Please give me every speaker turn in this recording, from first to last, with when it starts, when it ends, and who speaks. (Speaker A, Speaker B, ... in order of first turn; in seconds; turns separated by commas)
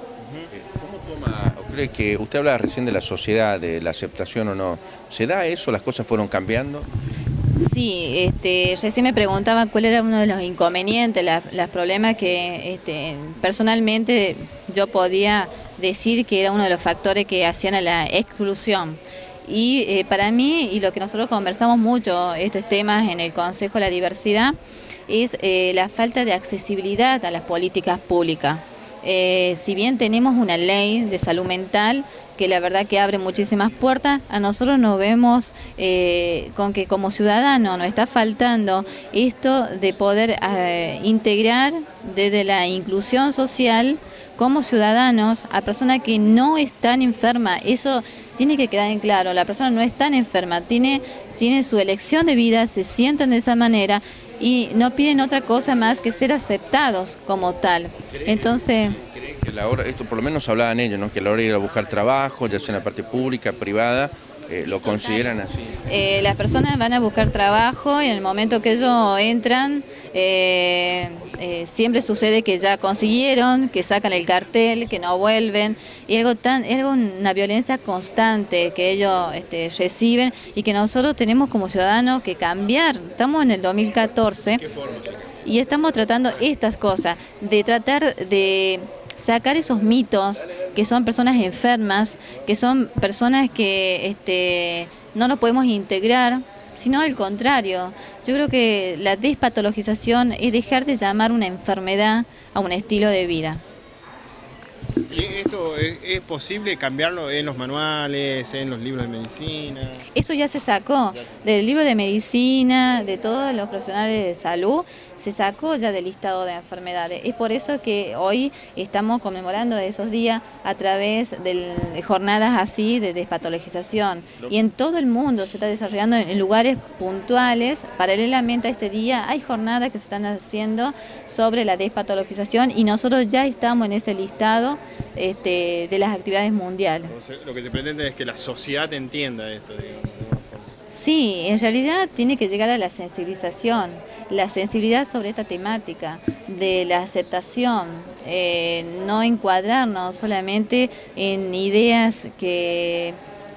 Speaker A: 0.2-0.5, Speaker B: 0.5-6.9, Speaker C: 7.6-24.6, Speaker C: 25.1-59.0, Speaker B: 58.2-65.7, Speaker C: 64.6-84.7, Speaker B: 84.6-85.2, Speaker C: 85.4-103.6, Speaker A: 105.1-110.0, Speaker C: 110.1-137.1, Speaker A: 137.1-140.7, Speaker C: 140.9-153.2